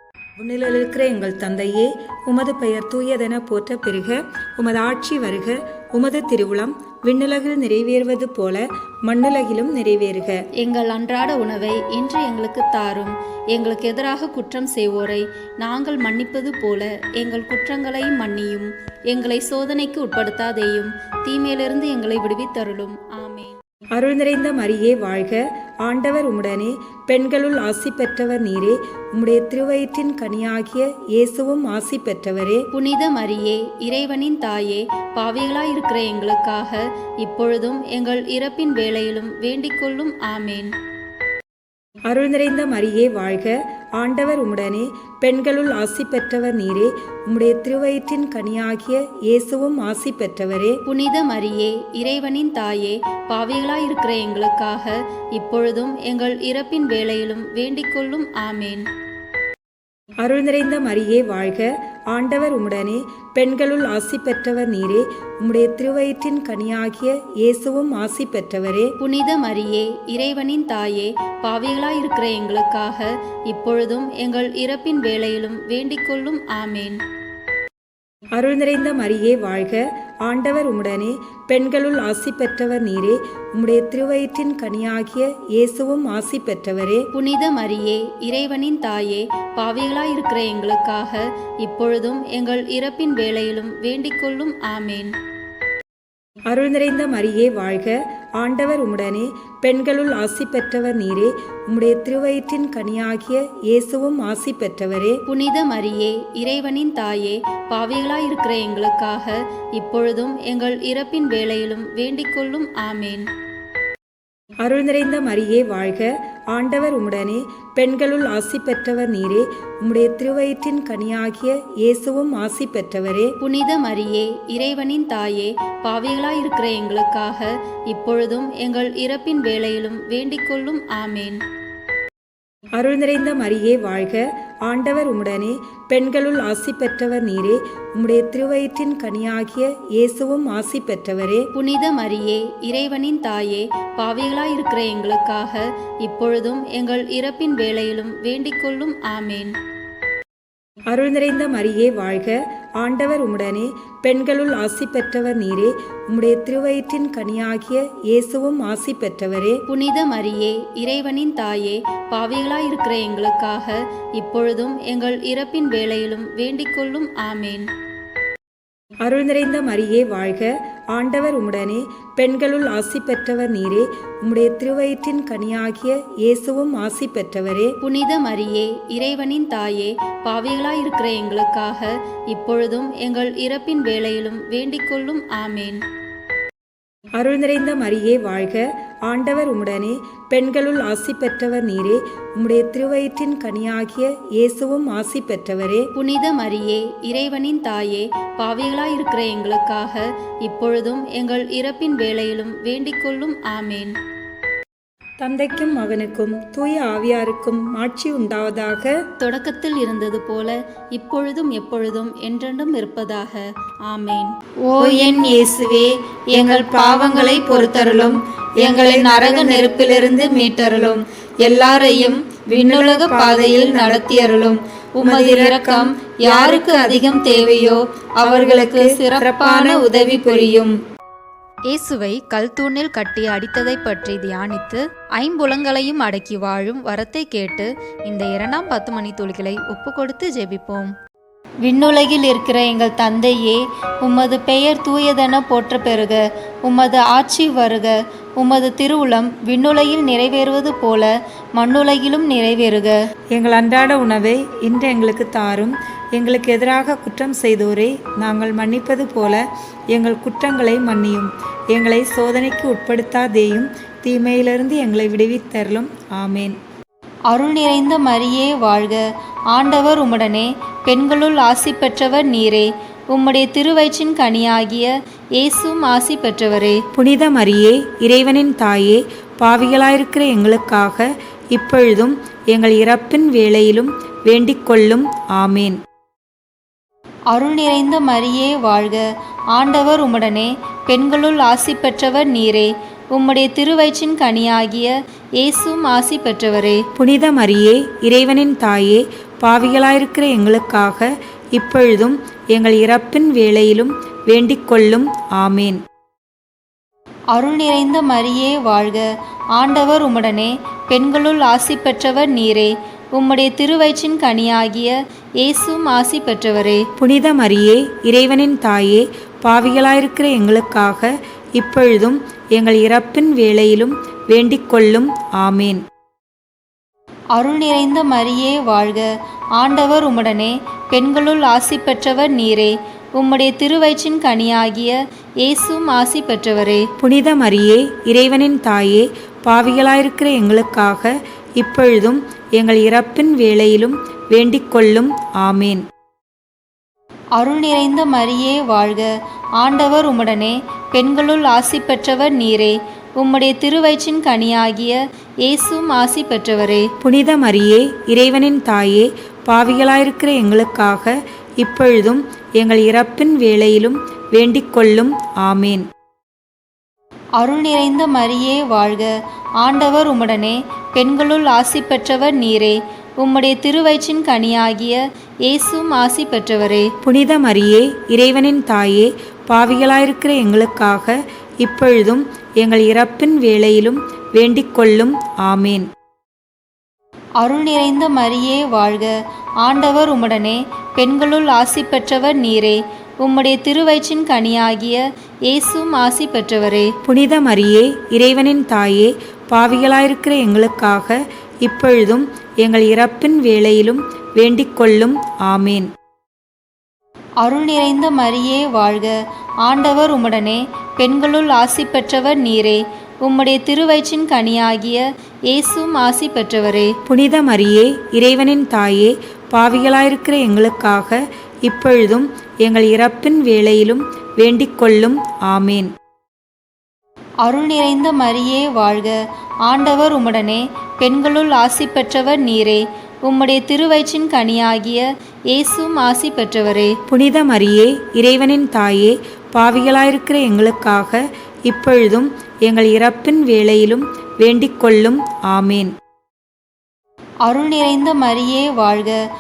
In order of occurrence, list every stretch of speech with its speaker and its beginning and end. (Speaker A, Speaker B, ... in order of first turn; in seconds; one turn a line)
Speaker A: 0.4-10.4
Speaker B: 10.6-23.6
Speaker A: 23.9-32.7
Speaker B: 32.7-40.7
Speaker A: 42.1-50.8
Speaker B: 50.9-58.8
Speaker A: 60.2-68.9
Speaker B: 69.0-77.0
Speaker A: 78.3-87.1
Speaker B: 87.1-95.1
Speaker A: 96.5-105.2
Speaker B: 105.3-113.3
Speaker A: 114.6-123.4
Speaker B: 123.4-131.4
Speaker A: 132.8-141.5
Speaker B: 141.6-149.5
Speaker A: 150.9-159.6
Speaker B: 159.7-167.7
Speaker A: 169.0-177.8
Speaker B: 177.8-185.8
Speaker A: 187.2-195.9
Speaker B: 196.0-203.9
Speaker A: 205.2-209.0
Speaker B: 209.2-214.3
Speaker C: 214.8-230.7
Speaker D: 231.7-240.9
Speaker C: 241.6-253.0
Speaker E: 253.3-259.4
Speaker E: 259.9-266.6
Speaker C: 267.3-276.8
Speaker E: 276.9-285.8
Speaker C: 287.3-296.8
Speaker E: 297.0-305.8
Speaker C: 307.3-316.9
Speaker E: 317.0-325.8
Speaker C: 327.4-336.9
Speaker E: 337.0-345.8
Speaker C: 347.4-356.9
Speaker E: 357.0-365.9
Speaker C: 367.4-376.9
Speaker E: 377.0-385.9
Speaker C: 387.4-396.9
Speaker E: 397.0-405.9
Speaker C: 407.4-416.9
Speaker E: 417.1-425.9
Speaker C: 427.4-437.0
Speaker E: 437.1-445.9
Speaker C: 447.5-449.2